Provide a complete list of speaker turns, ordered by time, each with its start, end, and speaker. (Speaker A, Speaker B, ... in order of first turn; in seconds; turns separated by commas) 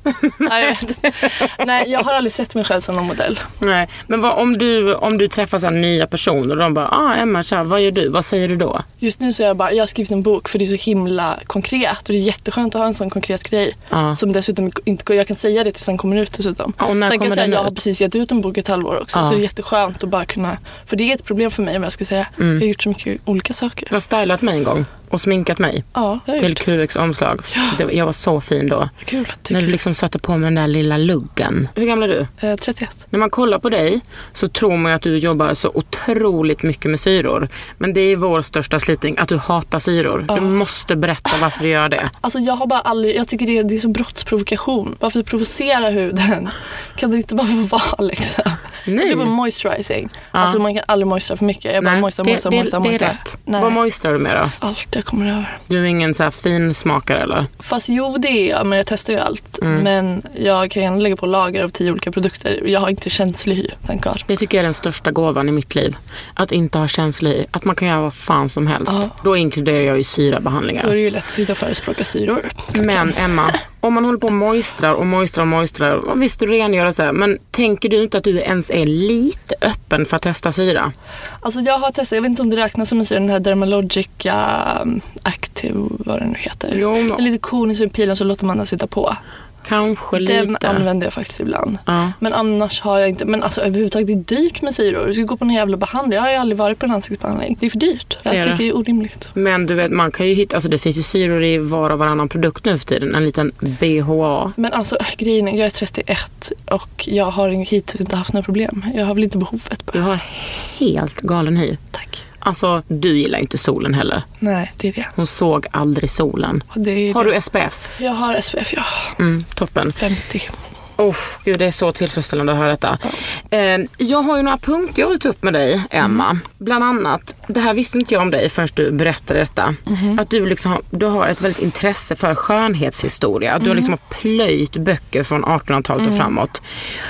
Speaker A: 0.1-0.4, Speaker B: 0.4-3.5, Speaker A: 3.6-8.8, Speaker B: 9.0-23.9, Speaker A: 13.9-14.2, Speaker A: 16.8-17.7, Speaker A: 19.1-19.4, Speaker A: 22.4-22.6, Speaker A: 23.9-28.9, Speaker B: 25.9-26.6, Speaker B: 27.5-27.8, Speaker B: 29.0-29.8, Speaker A: 29.5-32.3, Speaker B: 32.4-33.0, Speaker A: 33.1-42.1, Speaker B: 40.3-40.6, Speaker B: 42.2-53.8, Speaker A: 48.9-49.3, Speaker A: 50.3-50.6, Speaker A: 51.8-54.5, Speaker B: 54.6-55.6, Speaker A: 55.7-57.5, Speaker B: 57.6-64.2, Speaker A: 59.6-59.9, Speaker A: 64.3-70.9, Speaker B: 68.9-69.1, Speaker B: 70.8-73.3, Speaker A: 72.7-80.9, Speaker B: 81.4-89.2, Speaker A: 86.7-87.2, Speaker A: 89.6-90.9, Speaker B: 90.1-99.3, Speaker A: 91.9-92.1, Speaker A: 98.3-98.6, Speaker A: 99.3-104.5, Speaker B: 104.6-110.0, Speaker A: 109.9-111.8, Speaker B: 111.9-112.2, Speaker A: 112.4-114.2, Speaker B: 114.4-115.1, Speaker A: 115.2-117.9, Speaker B: 116.7-117.4, Speaker B: 117.9-119.2, Speaker A: 119.2-120.0, Speaker B: 120.0-120.5, Speaker A: 121.0-136.6, Speaker B: 129.9-130.2, Speaker B: 133.6-133.9, Speaker B: 136.0-136.3